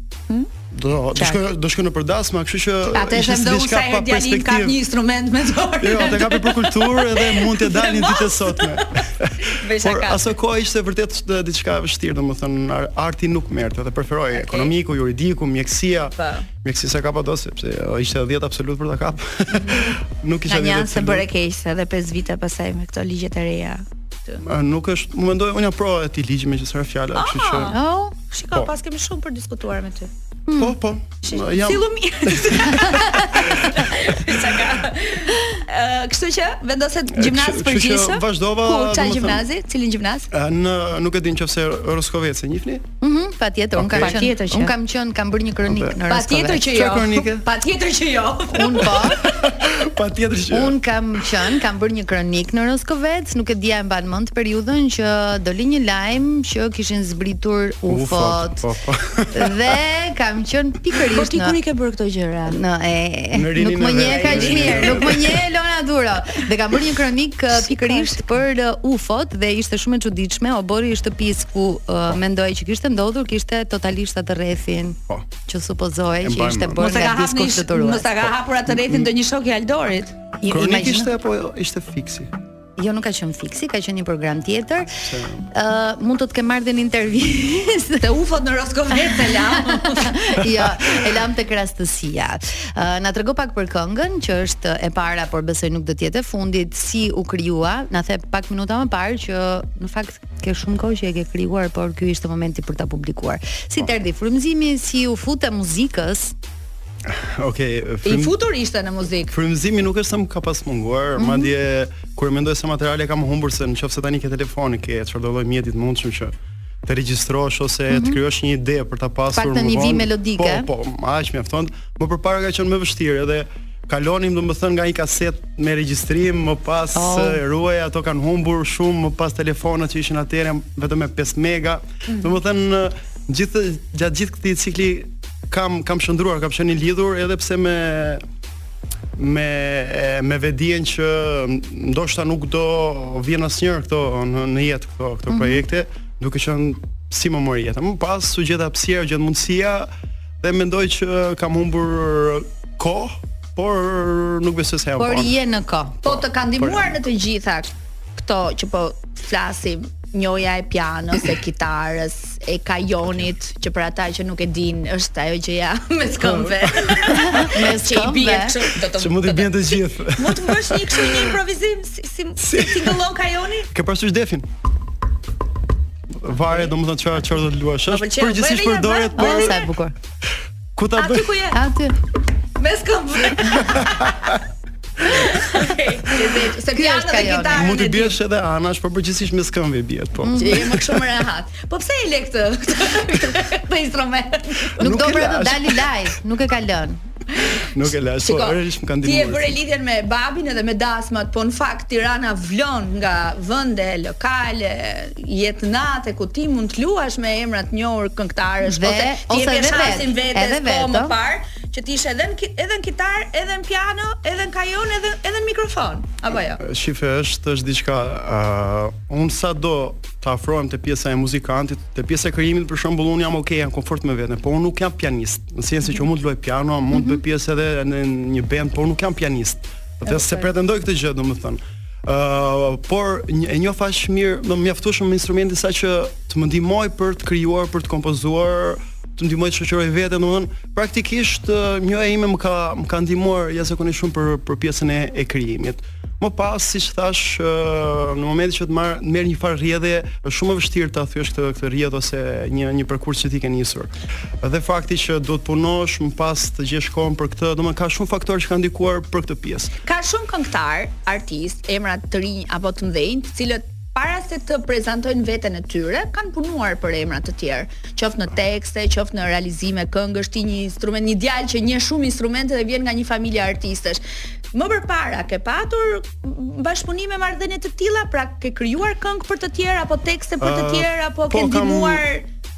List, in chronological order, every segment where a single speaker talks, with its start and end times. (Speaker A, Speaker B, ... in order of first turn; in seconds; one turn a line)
Speaker A: 0.7-4.8
Speaker B: 1.1-1.4
Speaker B: 2.9-10.3
Speaker A: 5.8-21.2
Speaker B: 14.3-14.7
Speaker B: 16.1-16.4
Speaker B: 20.5-24.4
Speaker A: 24.4-27.8
Speaker B: 27.1-30.1
Speaker C: 27.7-28.1
Speaker C: 30.5-30.8
Speaker A: 30.6-34.0
Speaker B: 31.2-40.3
Speaker A: 37.1-39.5
Speaker A: 40.3-42.9
Speaker C: 43.0-46.8
Speaker A: 43.8-44.2
Speaker B: 43.9-44.7
Speaker A: 45.7-46.0
Speaker B: 46.1-49.1
Speaker A: 46.7-47.5
Speaker C: 48.5-49.3
Speaker A: 49.2-50.8
Speaker C: 50.5-58.6
Speaker A: 57.9-59.6
Speaker C: 59.3-61.6
Speaker B: 60.9-62.6
Speaker C: 62.5-78.3
Speaker A: 63.3-65.4
Speaker B: 64.0-65.2
Speaker B: 67.5-68.2
Speaker A: 76.2-76.8
Speaker B: 76.8-80.1
Speaker A: 78.7-79.1
Speaker C: 80.4-81.1
Speaker A: 80.5-82.3
Speaker C: 82.8-84.9
Speaker A: 85.0-85.5
Speaker C: 85.5-88.0
Speaker B: 88.0-90.4
Speaker C: 88.9-106.3
Speaker A: 107.0-108.3
Speaker B: 108.0-109.3
Speaker A: 109.3-116.3
Speaker C: 111.2-111.5
Speaker A: 116.8-138.2
Speaker C: 117.9-118.2
Speaker C: 119.3-120.7
Speaker C: 126.9-127.4
Speaker A: 139.2-149.9
Speaker C: 145.3-145.6
Speaker A: 150.4-155.3
Speaker C: 154.9-156.1
Speaker B: 156.0-173.7
Speaker A: 156.1-157.0
Speaker A: 166.2-167.2
Speaker C: 167.1-168.6
Speaker A: 168.9-171.3
Speaker A: 172.4-173.0
Speaker A: 173.7-174.5
Speaker A: 176.2-179.6
Speaker B: 177.9-179.7
Speaker C: 179.2-179.9
Speaker A: 180.8-181.4
Speaker B: 180.9-181.6
Speaker C: 181.5-182.0
Speaker B: 182.6-184.2
Speaker A: 183.7-183.9
Speaker B: 185.1-188.2
Speaker C: 186.7-187.6
Speaker A: 187.5-190.9
Speaker C: 190.2-190.7
Speaker B: 190.3-194.8
Speaker A: 194.8-195.9
Speaker C: 194.8-197.0
Speaker A: 197.6-199.6
Speaker B: 198.2-216.6
Speaker C: 208.6-211.2
Speaker A: 216.6-259.7
Speaker C: 226.9-227.2
Speaker C: 230.1-230.4
Speaker B: 259.8-274.0
Speaker B: 274.5-282.2
Speaker A: 280.4-282.0